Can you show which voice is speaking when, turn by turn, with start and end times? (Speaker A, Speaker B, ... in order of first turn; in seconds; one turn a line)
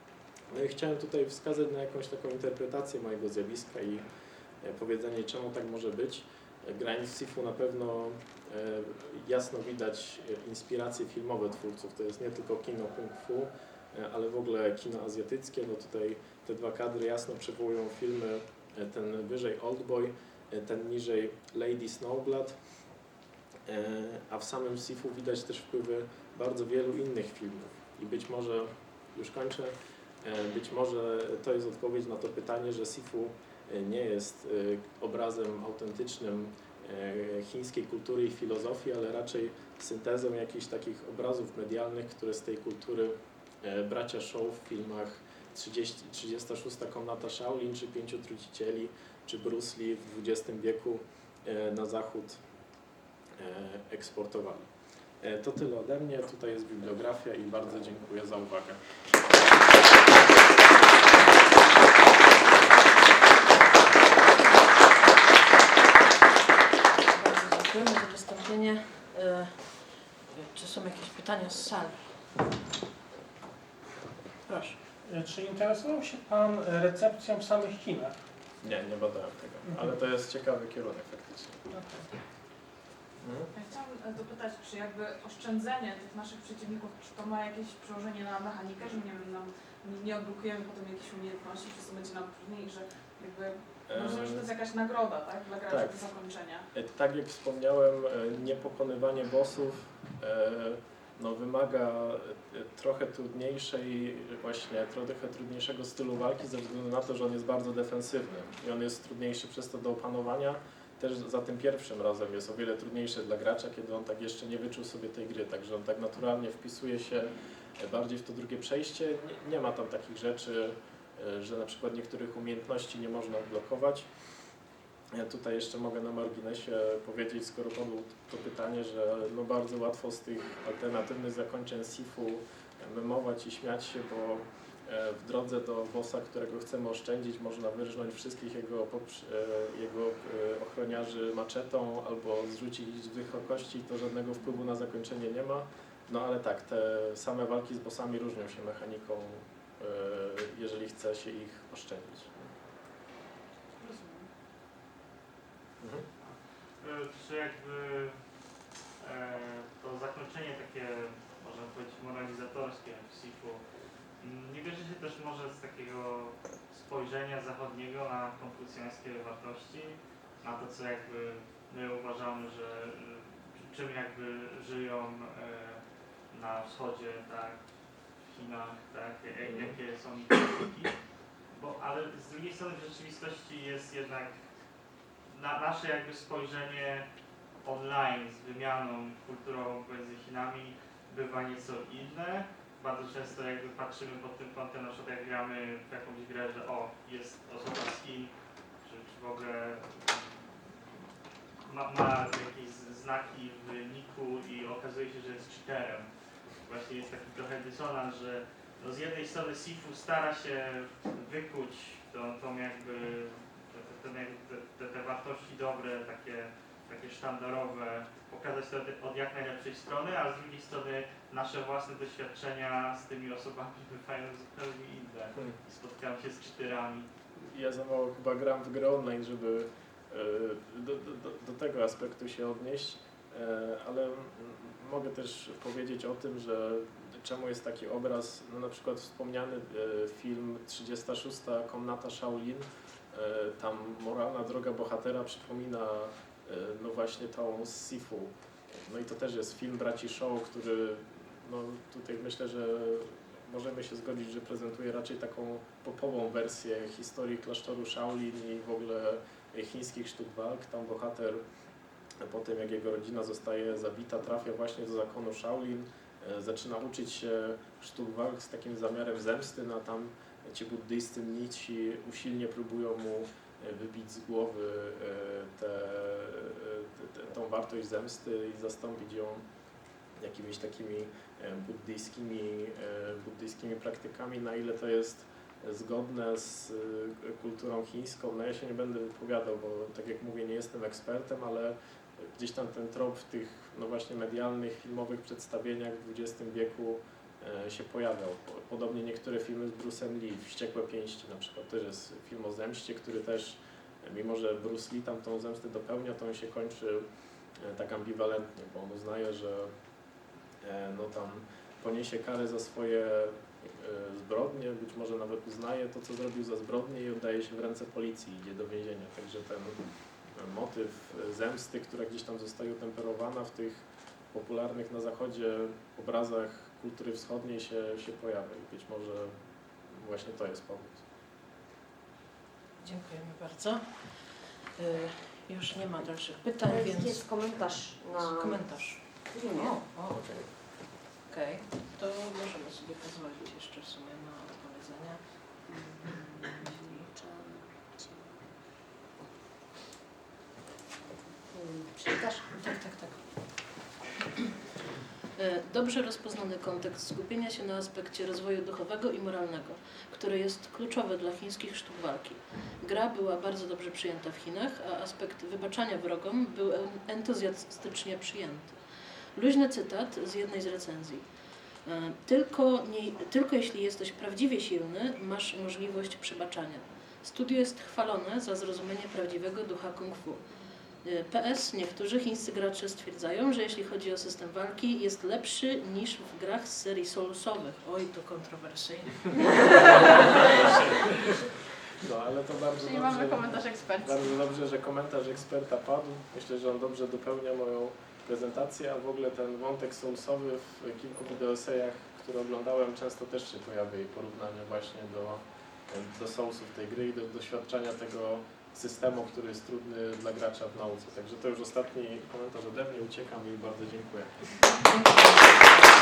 Speaker A: 0.5-4.0
Speaker A: 4.6-22.6
Speaker A: 23.7-52.4
Speaker A: 53.4-54.7
Speaker A: 55.2-58.8
Speaker B: 67.1-72.1
Speaker C: 74.5-78.2
Speaker A: 78.6-81.6
Speaker B: 81.7-82.0
Speaker A: 83.2-83.5
Speaker D: 83.5-96.7
Speaker A: 93.9-94.5
Speaker A: 95.7-96.0
Speaker A: 96.7-124.1
Speaker A: 125.1-152.5
Speaker D: 153.8-154.3
Speaker A: 155.8-156.1
Speaker E: 156.2-158.2
Speaker E: 159.0-163.6
Speaker E: 164.2-175.8
Speaker E: 176.3-177.6
Speaker E: 178.3-180.9
Speaker E: 181.5-184.3
Speaker E: 185.3-187.1
Speaker E: 187.6-198.3
Speaker E: 198.8-201.0
Speaker E: 201.7-206.1
Speaker E: 206.6-227.1
Speaker A: 227.5-248.3
Speaker A: 248.8-261.4
Speaker A: 262.2-279.4
Speaker A: 280.2-307.1
Speaker A: 307.6-309.7
Speaker A: 310.6-319.8
Speaker A: 320.4-329.4
Speaker A: 329.9-331.0
Speaker B: 332.8-334.1
Speaker B: 334.8-337.2
Speaker F: 336.7-338.7
Speaker B: 338.1-340.3
Speaker F: 339.3-339.8
Speaker A: 340.1-340.5
Speaker B: 341.3-345.6
Speaker F: 345.7-348.2
Speaker B: 346.5-347.1
Speaker F: 351.4-352.5
Speaker B: 352.4-353.6
Speaker B: 355.4-368.8
Speaker B: 369.4-371.2
Speaker B: 371.9-380.4
Speaker B: 381.0-390.6
Speaker A: 390.4-391.0
Speaker A: 392.0-414.5
Speaker D: 393.0-394.1
Speaker B: 414.9-415.6